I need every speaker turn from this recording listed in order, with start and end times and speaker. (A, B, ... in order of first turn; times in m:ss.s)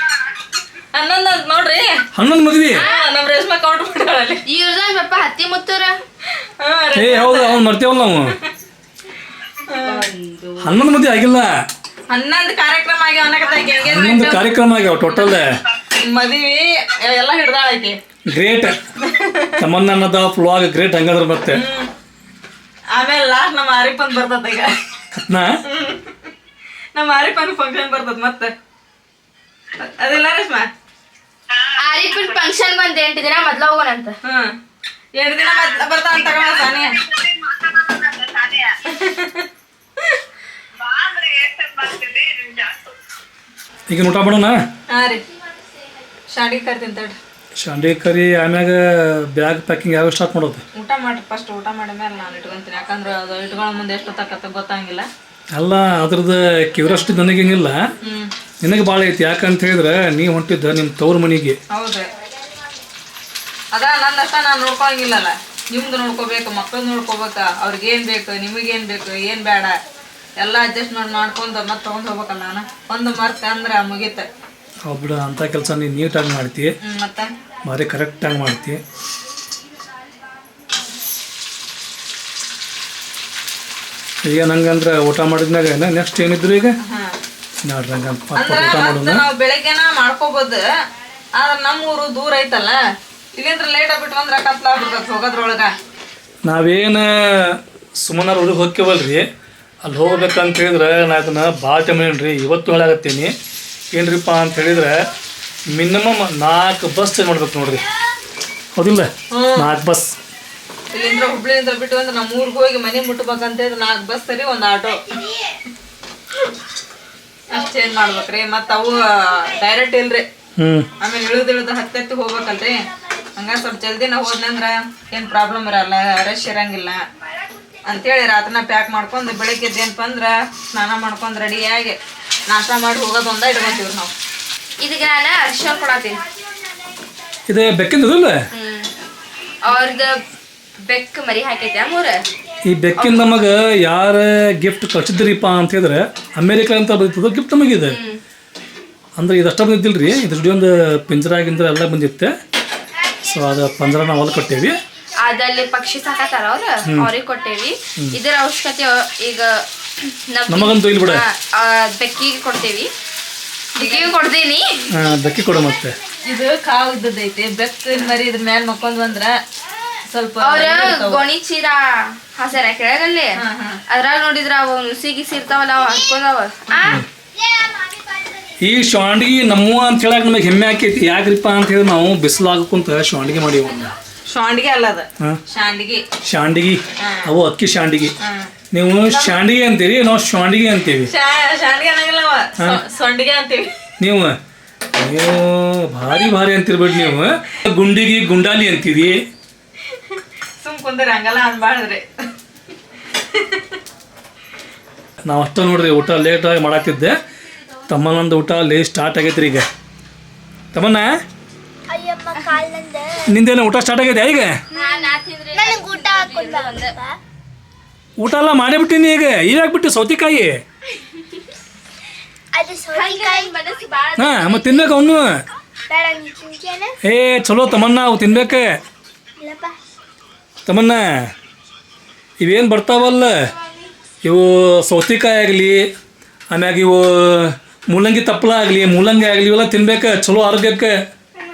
0:00.9-0:02.0 A
0:02.1-0:02.8 B
0:02.7-0:03.0 C
0:02.8-0:04.4 A
0:04.5-0:06.0 C
0:06.6-0:07.6 A
0:06.9-0:08.3 B
0:09.6-0:10.1 A
0:09.8-0:10.8 C
0:10.6-0:11.5 B
0:12.1-0:14.4 A
0:13.8-0:15.5 B
0:16.0-0:18.0 A
0:18.3-0:18.8 B
0:19.0-0:19.5 A
0:19.6-0:21.6 B
0:21.5-0:21.9 A
0:22.9-0:24.7 A
0:25.2-0:25.6 B
0:25.7-0:26.3 A
0:26.9-0:28.5 A
0:29.8-0:30.7 A
0:31.8-0:34.2 C
0:34.2-0:34.5 A
0:35.2-0:39.4 A
0:40.8-0:42.9 A
0:43.9-0:44.6 B
0:44.9-0:45.2 A
0:46.3-0:47.2 A
0:47.6-0:50.6 B
0:50.7-0:55.1 A
0:55.5-0:57.8 B
0:58.0-0:58.3 A
0:58.6-1:01.6 B
1:01.7-1:02.1 A
1:03.7-1:09.8 A
1:10.4-1:14.2 A
1:14.8-1:16.7 B
1:16.8-1:17.3 A
1:17.6-1:18.8 B
1:24.2-1:26.8 B
1:26.8-1:27.1 A
1:27.6-1:29.2 B
1:28.3-1:30.6 A
1:31.4-1:32.8 A
1:33.3-1:35.8 A
1:36.4-1:39.2 B
1:39.8-1:43.3 B
1:43.9-1:45.0 B
1:45.7-1:47.8 B
1:48.8-1:50.2 B
1:49.3-1:49.7 A
1:50.9-1:55.2 A
1:57.5-2:00.2 A
2:00.6-2:00.9 B
2:01.0-2:02.8 A
2:03.4-2:07.0 A
2:07.8-2:14.1 A
2:14.8-2:16.2 C
2:17.5-2:18.4 B
2:18.5-2:18.9 C
2:19.6-2:20.2 C
2:20.8-2:22.2 C
2:22.6-2:28.0 B
2:23.0-2:23.2 C
2:27.9-2:28.2 C
2:29.2-2:32.3 B
2:33.2-2:34.8 B
2:35.2-2:42.9 C
2:36.8-2:37.1 B
2:40.5-2:41.2 B
2:43.7-2:44.9 C
2:43.8-2:44.1 A
2:44.9-2:46.0 B
2:46.2-2:49.4 A
2:50.1-2:51.2 A
2:50.4-2:57.0 C
2:53.4-2:53.8 A
2:58.6-3:03.9 B
3:04.3-3:06.0 A
3:06.2-3:08.1 B
3:08.2-3:08.5 A
3:08.7-3:11.1 B
3:09.1-3:09.4 A
3:11.1-3:13.7 A
3:14.0-3:14.3 B
3:14.9-3:19.2 B
3:20.1-3:22.1 A
3:23.1-3:23.6 A
3:25.2-3:27.2 B
3:27.9-3:29.6 B
3:30.7-3:31.1 B
3:31.9-3:33.3 D
3:33.3-3:34.6 B
3:34.7-3:37.2 D
3:34.8-3:37.0 C
3:38.2-3:40.6 B
3:42.5-3:43.6 D
3:42.9-3:45.0 C
3:44.2-3:45.4 B
3:45.9-3:46.9 D
3:47.0-3:48.7 B
3:49.4-3:49.8 D
3:50.6-3:51.3 B
3:52.4-3:53.3 B
3:54.2-3:55.8 B
3:56.5-4:00.9 B